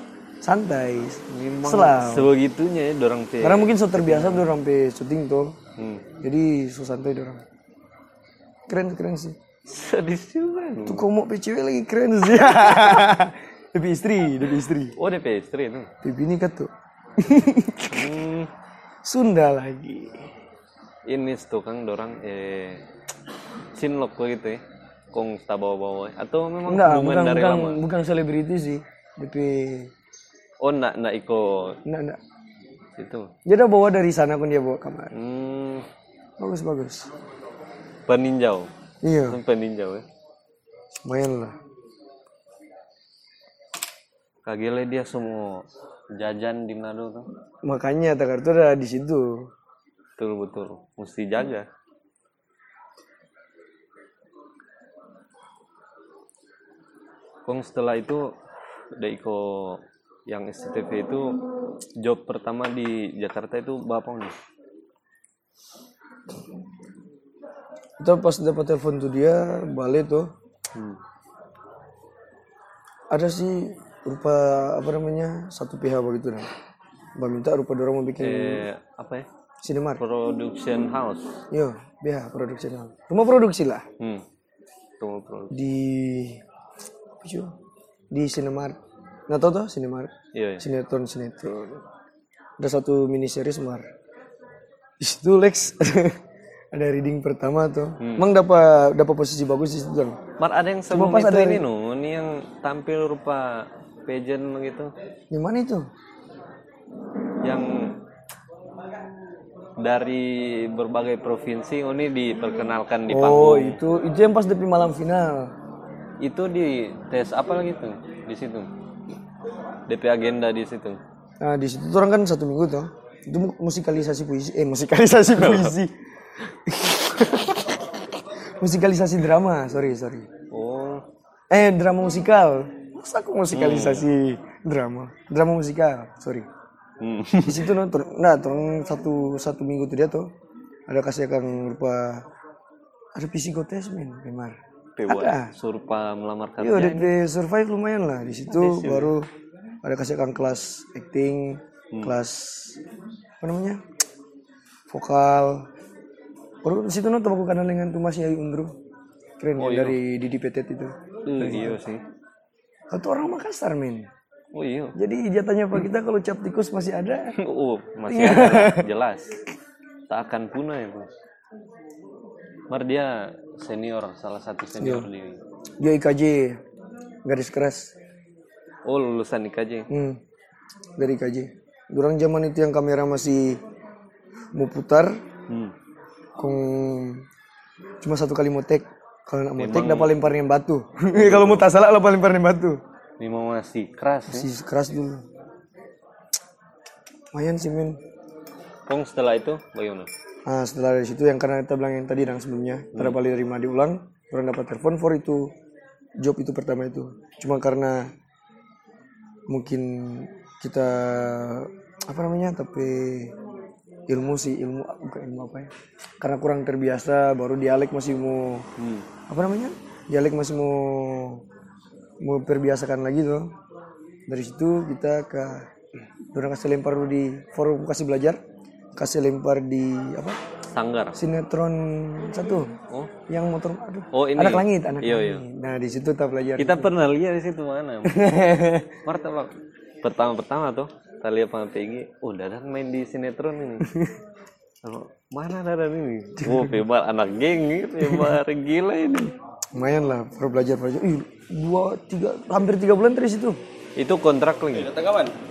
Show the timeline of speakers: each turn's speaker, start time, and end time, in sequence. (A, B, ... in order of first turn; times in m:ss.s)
0:00.4-0:02.3 A
0:01.3-0:04.5 B
0:03.4-0:05.6 A
0:05.8-0:06.0 B
0:06.2-0:07.4 A
0:08.7-0:09.4 A
0:09.7-0:11.0 B
0:10.8-0:14.9 A
0:15.0-0:15.9 B
0:16.0-0:18.2 A
0:17.9-0:18.5 B
0:19.0-0:20.2 A
0:21.1-0:22.8 B
0:23.7-0:24.6 B
0:25.1-0:27.8 B
0:26.6-0:29.9 A
0:30.6-0:31.8 B
0:31.8-0:32.2 A
0:33.0-0:33.3 B
0:33.4-0:35.1 A
0:35.1-0:35.8 B
0:36.4-0:37.1 A
0:38.1-0:38.7 B
0:39.0-0:39.4 A
0:39.2-0:40.0 B
0:41.0-0:41.6 A
0:44.4-0:47.2 B
0:47.6-0:49.5 A
0:50.2-0:51.7 B
0:57.5-0:58.3 B
0:59.0-1:01.3 B
1:02.0-1:04.3 B
1:08.0-1:10.3 A
1:10.7-1:11.0 B
1:13.1-1:16.5 A
1:17.2-1:18.6 A
1:18.2-1:19.2 B
1:19.6-1:20.0 A
1:20.0-1:21.4 B
1:21.5-1:23.8 A
1:24.0-1:24.2 B
1:25.0-1:25.6 B
1:25.5-1:26.4 A
1:27.2-1:27.5 A
1:28.1-1:28.8 A
1:29.3-1:31.8 A
1:30.3-1:30.6 B
1:32.6-1:33.9 A
1:35.0-1:36.2 A
1:36.7-1:40.2 A
1:38.0-1:38.3 B
1:40.4-1:44.9 B
1:40.9-1:41.6 A
1:45.3-1:45.9 A
1:47.4-1:48.0 B
1:49.8-1:53.8 B
1:53.1-1:55.5 A
1:56.2-1:58.7 B
1:59.9-2:01.0 B
2:01.4-2:06.0 A
2:05.3-2:05.7 B
2:06.6-2:10.3 A
2:10.5-2:11.0 B
2:11.5-2:16.5 A
2:13.5-2:14.1 B
2:17.0-2:17.7 B
2:17.4-2:20.3 A
2:20.9-2:22.2 A
2:23.1-2:25.5 A
2:25.0-2:27.1 B
2:26.6-2:29.3 A
2:28.5-2:29.1 B
2:29.8-2:32.8 A
2:31.9-2:32.2 B
2:33.4-2:33.8 A
2:34.9-2:35.7 A
2:36.6-2:38.7 A
2:39.4-2:41.8 A
2:39.6-2:40.0 B
2:41.2-2:42.0 B
2:42.9-2:44.1 A
2:44.5-2:44.9 B
2:45.0-2:47.3 A
2:47.3-2:49.4 B
2:48.1-2:48.8 A
2:50.1-2:51.1 B
2:52.7-2:55.4 B
2:54.8-2:55.1 A
2:55.8-2:56.6 A
2:57.2-2:57.9 A
2:58.9-2:59.9 B
2:59.9-3:00.2 A
3:01.0-3:03.6 A
3:04.5-3:05.1 A
3:05.5-3:05.7 B
3:06.4-3:07.2 A
3:08.0-3:12.8 A
3:09.6-3:10.2 B
3:11.1-3:11.6 B
3:13.2-3:14.5 B
3:14.3-3:15.2 A
3:17.3-3:18.0 A
3:18.9-3:20.1 B
3:20.5-3:25.5 A
3:26.2-3:28.1 A
3:29.5-3:33.3 A
3:34.1-3:38.6 A
3:38.8-3:39.0 B
3:39.3-3:41.4 A
3:42.2-3:43.5 A
3:44.3-3:45.7 A
3:46.3-3:48.4 A
3:49.0-3:50.4 A
3:50.7-3:51.2 B
3:51.1-3:52.7 A
3:53.3-3:56.9 A
3:54.1-3:55.4 B
3:56.6-3:58.3 B
3:58.1-3:59.0 A
3:59.0-3:59.5 B
4:00.0-4:03.9 B
4:03.8-4:04.1 A
4:04.8-4:09.3 B
4:06.4-4:06.7 A
4:08.0-4:08.3 A
4:09.7-4:13.6 A
4:14.0-4:15.3 B